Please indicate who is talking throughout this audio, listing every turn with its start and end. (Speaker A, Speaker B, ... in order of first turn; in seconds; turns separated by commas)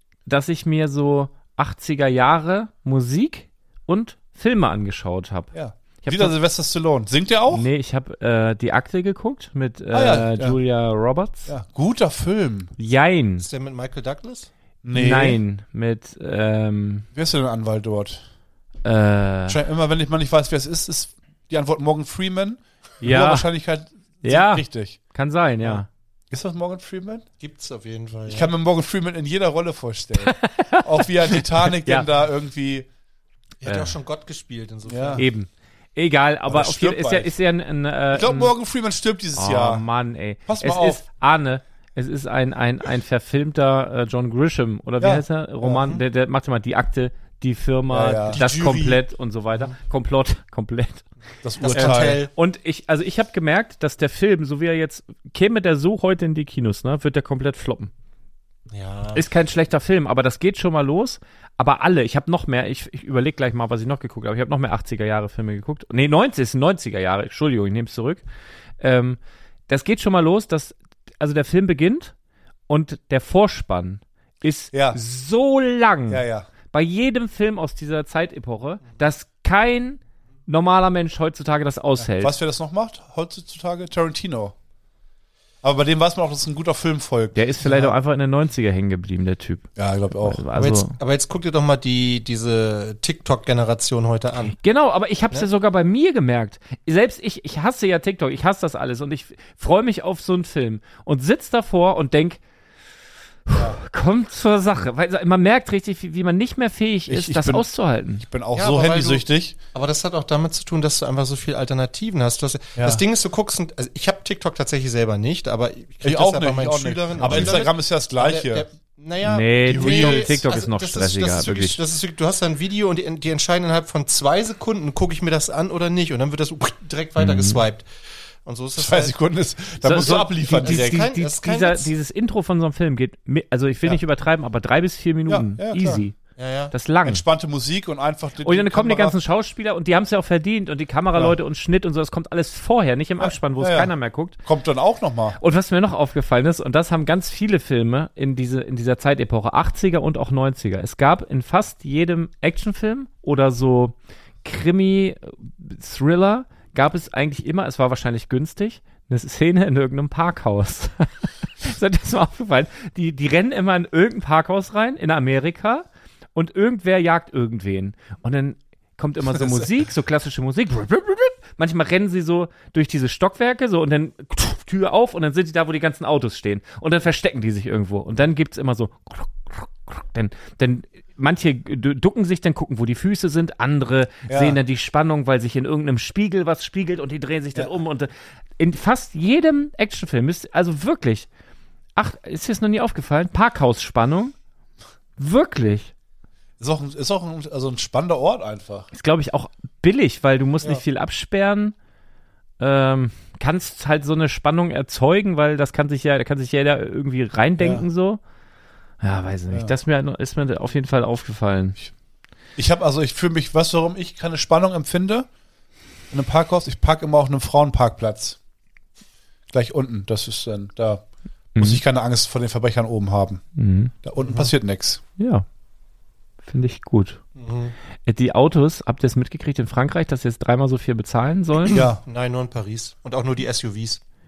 Speaker A: 0.2-6.3, Speaker B: 5.5-7.7, Speaker A: 7.5-11.5, Speaker B: 9.9-10.6, Speaker B: 11.5-12.7, Speaker A: 12.8-13.5, Speaker C: 13.4-14.5, Speaker B: 14.8-15.4, Speaker A: 14.9-17.1, Speaker B: 17.1-18.2, Speaker A: 18.8-19.6, Speaker B: 19.5-25.0, Speaker A: 23.0-23.5, Speaker A: 24.2-25.9, Speaker B: 26.3-27.2, Speaker C: 27.4-28.5, Speaker B: 28.3-32.9, Speaker A: 30.2-32.0, Speaker C: 33.6-35.3, Speaker B: 34.9-35.2, Speaker A: 35.2-38.5, Speaker B: 36.5-37.3, Speaker B: 38.1-39.8, Speaker A: 39.4-51.1, Speaker B: 40.5-41.0, Speaker B: 45.0-45.8, Speaker C: 45.7-46.0, Speaker B: 47.9-48.4, Speaker C: 48.3-49.0, Speaker B: 51.4-52.2, Speaker C: 51.6-52.3, Speaker A: 51.7-57.9, Speaker C: 58.7-59.2, Speaker A: 59.1-68.2, Speaker A: 68.8-72.1, Speaker A: 72.7-82.3, Speaker B: 74.7-75.0, Speaker B: 76.1-76.5, Speaker B: 82.0-84.5, Speaker B: 85.6-87.9, Speaker A: 87.3-90.9, Speaker B: 89.8-90.4, Speaker C: 90.5-94.5, Speaker A: 94.5-102.4, Speaker A: 103.5-108.2, Speaker B: 107.1-107.7, Speaker B: 108.2-109.5, Speaker C: 108.5-127.9, Speaker B: 112.8-113.0, Speaker B: 116.0-118.7, Speaker A: 117.2-117.6, Speaker A: 119.2-121.8, Speaker B: 119.6-120.4, Speaker A: 127.2-127.6, Speaker C: 128.4-129.1, Speaker B: 128.8-131.1, Speaker A: 129.8-136.2, Speaker C: 130.4-131.9, Speaker B: 135.3-136.0, Speaker C: 136.4-136.7, Speaker A: 136.7-137.2, Speaker B: 137.1-139.2, Speaker A: 138.4-144.4, Speaker B: 143.2-143.9, Speaker B: 144.4-145.4, Speaker A: 145.4-191.3, Speaker B: 169.3-169.6, Speaker B: 184.3-184.6, Speaker A: 191.9-194.3, Speaker A: 195.2-195.9, Speaker B: 196.6-198.9, Speaker A: 198.9-201.7, Speaker A: 202.6-208.2, Speaker B: 207.6-207.8, Speaker A: 209.0-211.8, Speaker B: 212.6-215.3, Speaker B: 216.1-218.4, Speaker B: 219.5-221.0, Speaker A: 221.6-221.8, Speaker B: 221.6-223.4, Speaker A: 223.6-223.9, Speaker B: 224.0-225.0, Speaker C: 224.2-224.5, Speaker A: 225.2-225.4, Speaker A: 226.4-227.2, Speaker C: 227.4-227.7, Speaker A: 228.1-231.8, Speaker C: 231.6-234.0, Speaker B: 231.7-232.0